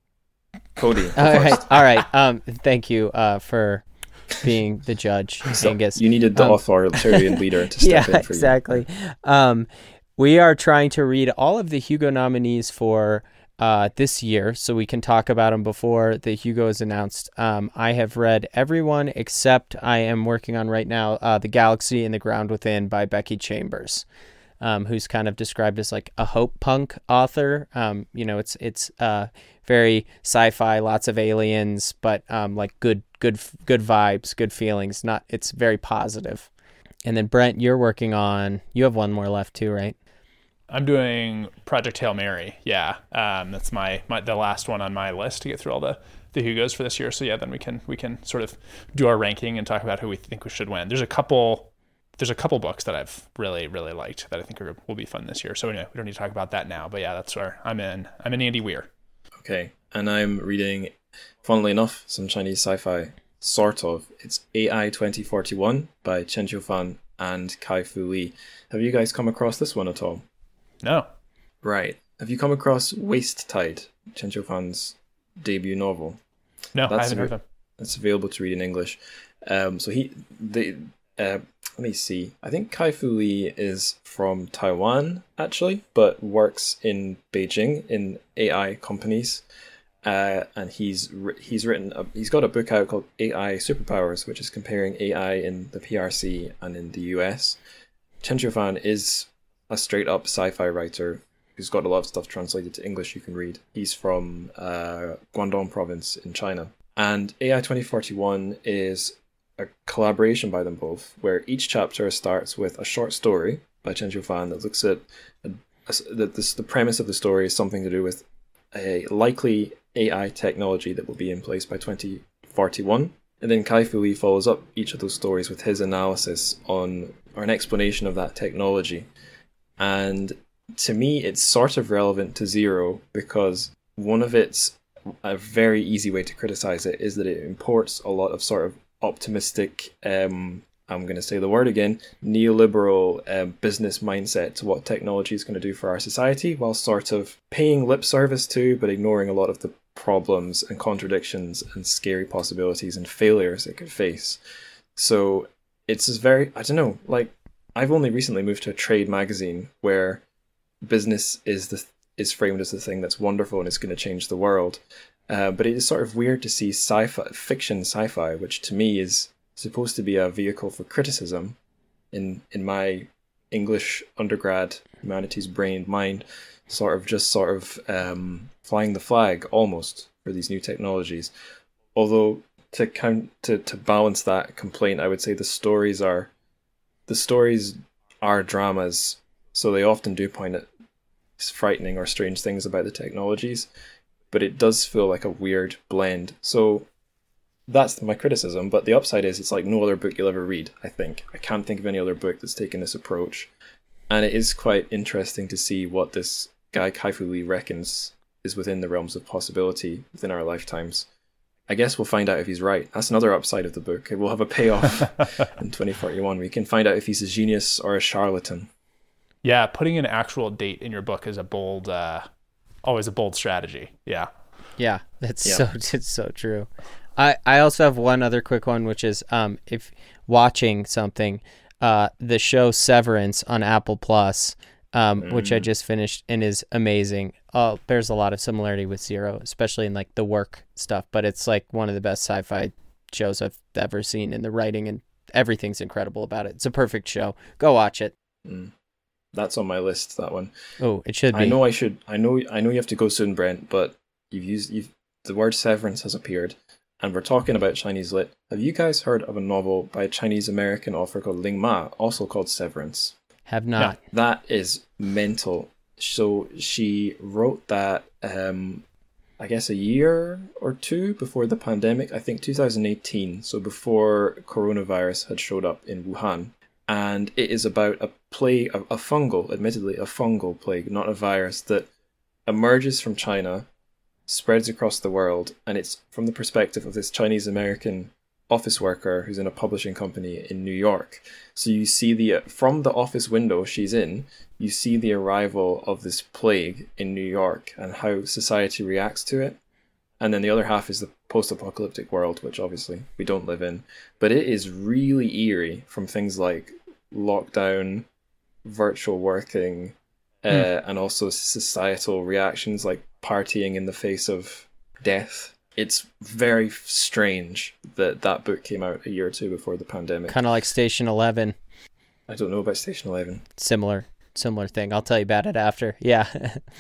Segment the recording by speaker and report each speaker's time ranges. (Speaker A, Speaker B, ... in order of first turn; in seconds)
Speaker A: 0.8-1.7, 5.5-8.6, 59.4-70.2, 71.6-76.2, 76.9-89.4, 90.0-97.6, 98.2-129.1, 129.8-154.4, 155.0-160.2, 160.8-171.6, 172.1-181.3, 181.9-186.3, 187.1-190.7, 191.4-193.7, 194.3-196.9, 197.7-203.5, 204.1-211.1, 211.7-218.7, 235.2-235.7, 248.4-248.7, 249.3-250.5, 251.3-263.1, 264.1-268.9, 269.4-281.9, 282.5-283.7, 284.3-299.6, 300.2-308.1, 308.6-320.4, 322.3-323.4
Speaker B: 1.2-24.1, 24.6-36.5, 37.1-40.0, 224.8-248.1, 250.8-251.6, 263.5-264.0, 320.3-321.6, 323.6-326.6
Speaker C: 40.7-58.9, 70.8-71.1, 76.8-77.4, 219.4-222.3, 222.8-224.3